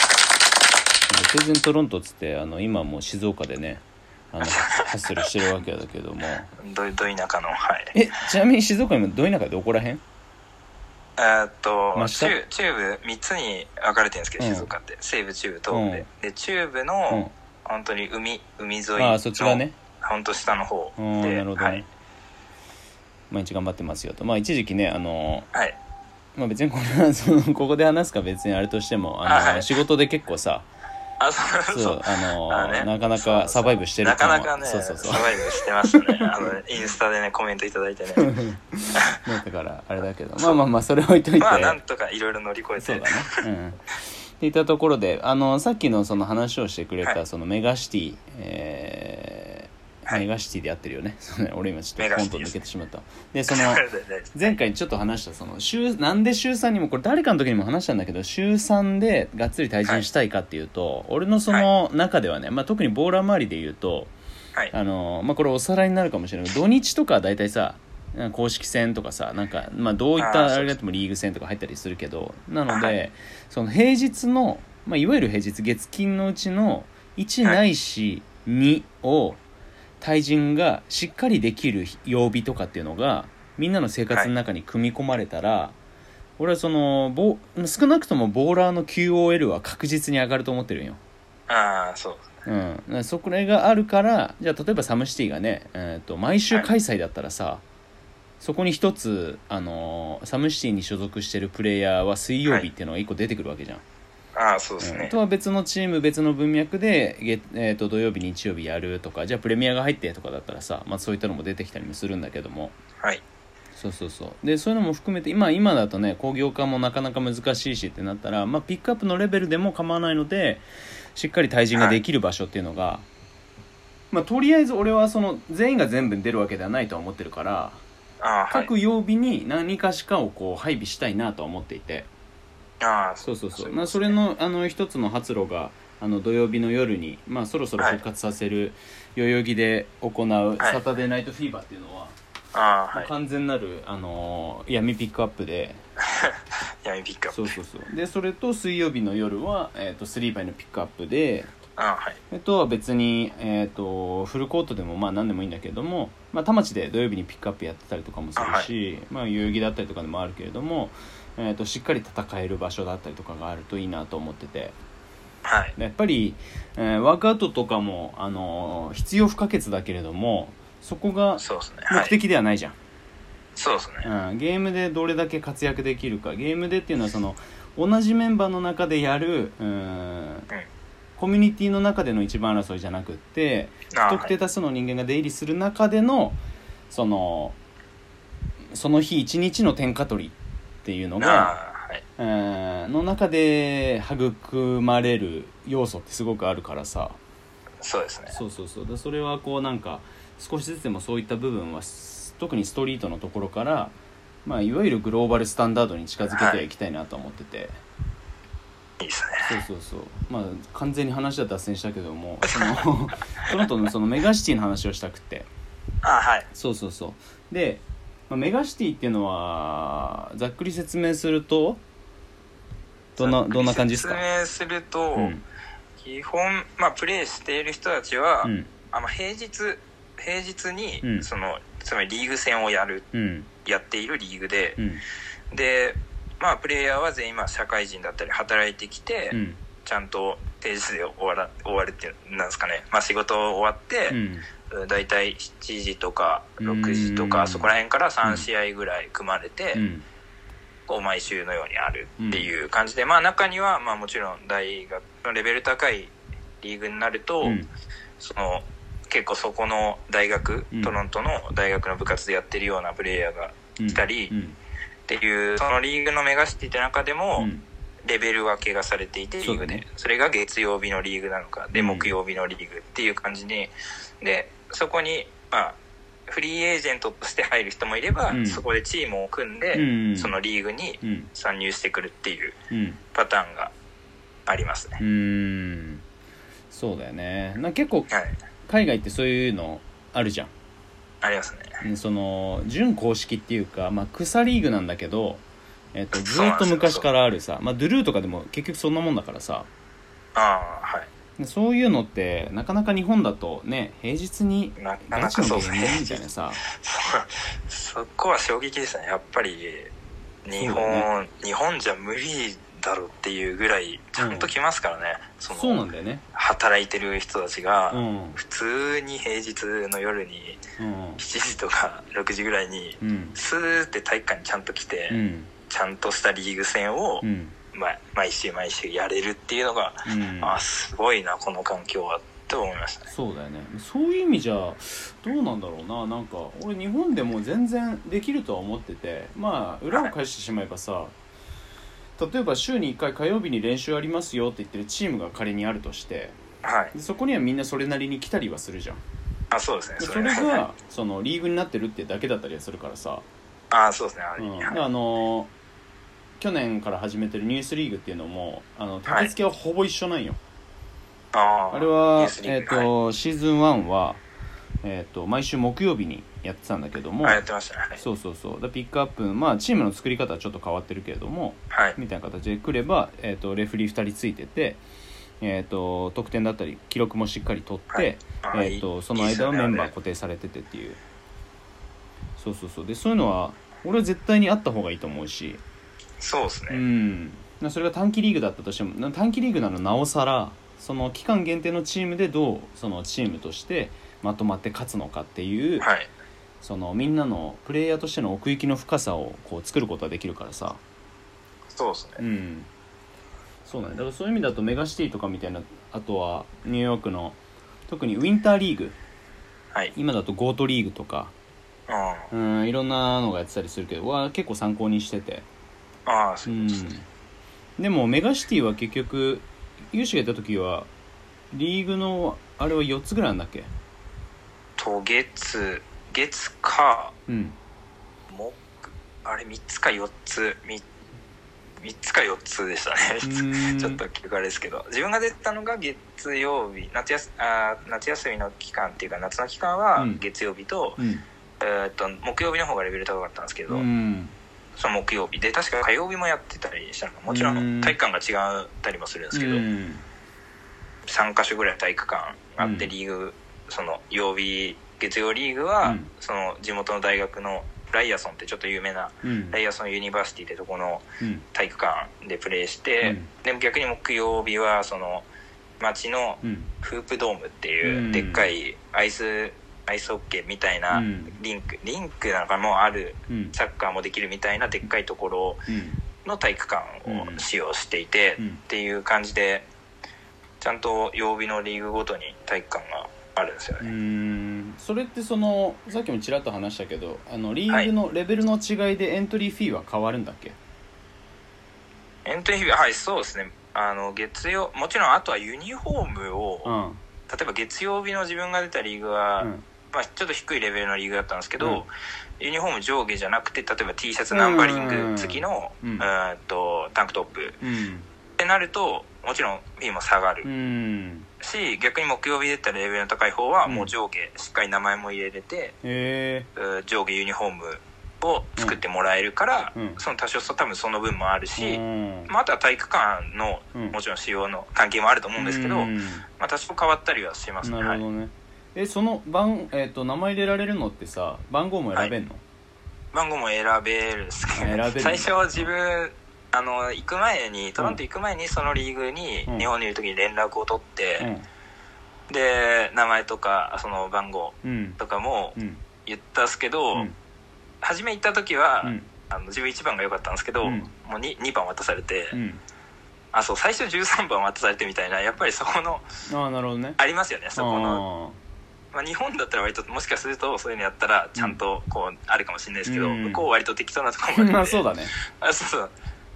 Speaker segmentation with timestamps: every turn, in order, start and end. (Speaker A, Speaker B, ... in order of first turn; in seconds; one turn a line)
Speaker A: 1.1-6.5
Speaker B: 4.4-4.8
Speaker B: 6.6-7.9
Speaker A: 7.9-10.0
Speaker B: 11.2-21.8
Speaker A: 11.9-12.3
Speaker A: 14.4-14.7
Speaker A: 15.7-16.1
Speaker A: 19.0-19.7
Speaker A: 21.0-21.9
Speaker A: 23.3-25.5
Speaker A: 26.4-30.7
Speaker B: 29.2-29.7
Speaker B: 31.2-38.3
Speaker A: 31.7-36.0
Speaker A: 38.2-41.8
Speaker B: 40.4-40.6
Speaker B: 41.4-43.4
Speaker A: 42.8-53.8
Speaker B: 52.0-52.5
Speaker B: 53.5-54.5
Speaker A: 54.3-64.1
Speaker A: 64.7-79.4
Speaker B: 70.2-70.7
Speaker B: 72.7-73.0
Speaker A: 80.0-85.7
Speaker A: 86.4-91.0
Speaker B: 91.5-92.3
Speaker A: 92.5-97.6
Speaker A: 98.4-103.8
Speaker B: 104.3-105.1
Speaker A: 104.8-112.7
Speaker A: 113.7-120.6
Speaker A: 121.2-123.0
Speaker B: 121.7-122.0
Speaker A: 124.1-127.8
Speaker B: 128.2-128.7
Speaker A: 128.5-132.1
Speaker B: 132.8-134.2
Speaker A: 133.2-142.1
Speaker B: 142.5-143.1
Speaker A: 142.9-145.8
Speaker B: 146.0-147.5
Speaker A: 147.3-151.5
Speaker B: 151.8-152.2
Speaker A: 152.3-164.7
Speaker B: 158.4-158.7
Speaker B: 165.4-165.7
Speaker A: 165.8-172.7
Speaker B: 171.4-172.1
Speaker B: 173.6-174.1
Speaker A: 174.0-180.5
Speaker A: 181.2-186.4
Speaker B: 183.9-184.3
Speaker A: 186.9-187.6
Speaker A: 188.7-191.5
Speaker B: 191.2-192.0
Speaker A: 192.2-197.2
Speaker B: 197.8-198.4
Speaker A: 198.3-203.9
Speaker A: 204.4-207.8
Speaker B: 206.3-206.6
Speaker B: 209.0-209.5
Speaker A: 209.4-215.5
Speaker B: 212.4-212.8
Speaker B: 216.0-216.5
Speaker A: 216.5-221.8
Speaker A: 223.2-224.2
Speaker B: 223.2-225.3
Speaker A: 225.2-225.4
Speaker B: 226.0-233.1
Speaker A: 228.4-228.7
Speaker A: 231.0-231.3
Speaker A: 233.1-233.5
Speaker B: 233.6-234.8
Speaker A: 234.8-235.0
Speaker B: 235.5-249.8
Speaker A: 239.3-239.6
Speaker A: 244.1-244.4
Speaker A: 246.6-247.7
Speaker A: 249.7-250.0
Speaker B: 250.9-257.6
Speaker A: 252.2-252.5
Speaker A: 257.4-257.7
Speaker B: 258.2-264.3
Speaker A: 263.8-264.6
Speaker B: 265.1-267.5
Speaker A: 267.4-267.6
Speaker B: 268.0-275.8
Speaker A: 269.4-269.8
Speaker A: 271.7-272.1
Speaker B: 276.3-282.6
Speaker A: 278.3-278.6
Speaker A: 279.7-280.3
Speaker A: 281.0-281.3
Speaker A: 282.7-283.0
Speaker B: 283.1-283.7
Speaker B: 284.5-285.0
Speaker A: 285.0-286.0
Speaker A: 286.7-288.1
Speaker B: 288.1-288.4
Speaker A: 288.7-290.5
Speaker B: 291.2-291.8
Speaker A: 291.8-295.4
Speaker A: 295.9-299.7
Speaker B: 296.1-297.1
Speaker B: 300.4-301.1
Speaker A: 301.4-306.6
Speaker B: 304.8-306.2
Speaker B: 306.8-309.9
Speaker B: 310.4-315.8
Speaker A: 310.6-311.1
Speaker A: 314.2-314.5
Speaker A: 315.5-316.2
Speaker B: 316.3-320.6
Speaker A: 317.9-318.4
Speaker A: 320.8-321.2
Speaker B: 321.2-333.1
Speaker A: 323.0-323.4
Speaker A: 325.1-325.5
Speaker A: 327.2-327.5
Speaker A: 330.0-330.6
Speaker A: 333.1-341.1
Speaker A: 342.2-346.4
Speaker B: 346.6-346.9
Speaker A: 346.9-349.0
Speaker B: 349.5-350.7
Speaker A: 350.0-353.2
Speaker B: 353.7-354.8
Speaker A: 354.4-355.5
Speaker A: 356.4-360.4
Speaker B: 359.1-359.3
Speaker B: 361.3-362.9
Speaker A: 361.7-364.2
Speaker A: 364.8-367.4
Speaker B: 367.2-368.0
Speaker A: 368.0-374.8
Speaker B: 371.7-372.0
Speaker A: 375.4-381.0
Speaker B: 377.9-379.9
Speaker A: 382.4-385.6
Speaker B: 386.2-386.8
Speaker A: 386.7-395.9
Speaker B: 395.8-396.1
Speaker A: 396.6-400.8
Speaker B: 401.7-402.2
Speaker A: 402.2-402.7
Speaker A: 403.6-408.9
Speaker A: 409.9-411.3
Speaker B: 411.9-412.3
Speaker A: 412.3-415.4
Speaker B: 416.1-416.9
Speaker A: 416.4-417.1
Speaker A: 417.8-420.9
Speaker A: 421.5-423.7
Speaker B: 424.8-427.1
Speaker A: 427.3-427.6
Speaker B: 428.3-430.8
Speaker B: 431.8-441.0
Speaker A: 433.2-434.0
Speaker A: 439.9-440.2
Speaker A: 441.0-441.2
Speaker B: 441.6-443.8
Speaker A: 443.7-444.3
Speaker B: 444.8-449.6
Speaker A: 447.3-448.0
Speaker A: 449.3-450.0
Speaker B: 451.1-465.2
Speaker A: 452.6-452.9
Speaker A: 455.8-456.1
Speaker A: 459.2-459.6
Speaker A: 461.2-461.4
Speaker A: 463.0-463.3
Speaker B: 465.8-475.6
Speaker A: 466.4-466.7
Speaker A: 467.8-468.5
Speaker A: 470.9-471.3
Speaker A: 473.3-473.5
Speaker A: 475.7-476.0
Speaker B: 476.2-479.7
Speaker A: 477.1-477.4
Speaker B: 480.6-483.9
Speaker A: 483.8-490.6
Speaker B: 492.2-496.7
Speaker A: 496.6-497.0
Speaker B: 497.3-507.6
Speaker A: 504.3-506.1
Speaker A: 507.6-508.1
Speaker B: 508.4-510.5
Speaker A: 510.4-511.3
Speaker B: 511.4-515.7
Speaker A: 513.6-513.9
Speaker A: 515.8-516.5
Speaker B: 516.5-528.0
Speaker A: 519.7-520.0
Speaker A: 521.5-522.3
Speaker A: 525.4-526.2
Speaker A: 527.6-532.4
Speaker B: 533.1-541.3
Speaker A: 534.5-535.7
Speaker A: 541.2-541.5
Speaker B: 542.3-547.1
Speaker A: 544.6-545.0
Speaker A: 545.5-545.8
Speaker B: 547.8-552.4
Speaker A: 548.8-549.1
Speaker A: 550.6-550.9
Speaker A: 552.3-552.6
Speaker B: 553.3-556.0
Speaker A: 556.3-557.0
Speaker B: 557.0-558.0
Speaker A: 557.5-558.4
Speaker B: 558.9-565.9
Speaker A: 562.9-563.5
Speaker A: 564.3-565.1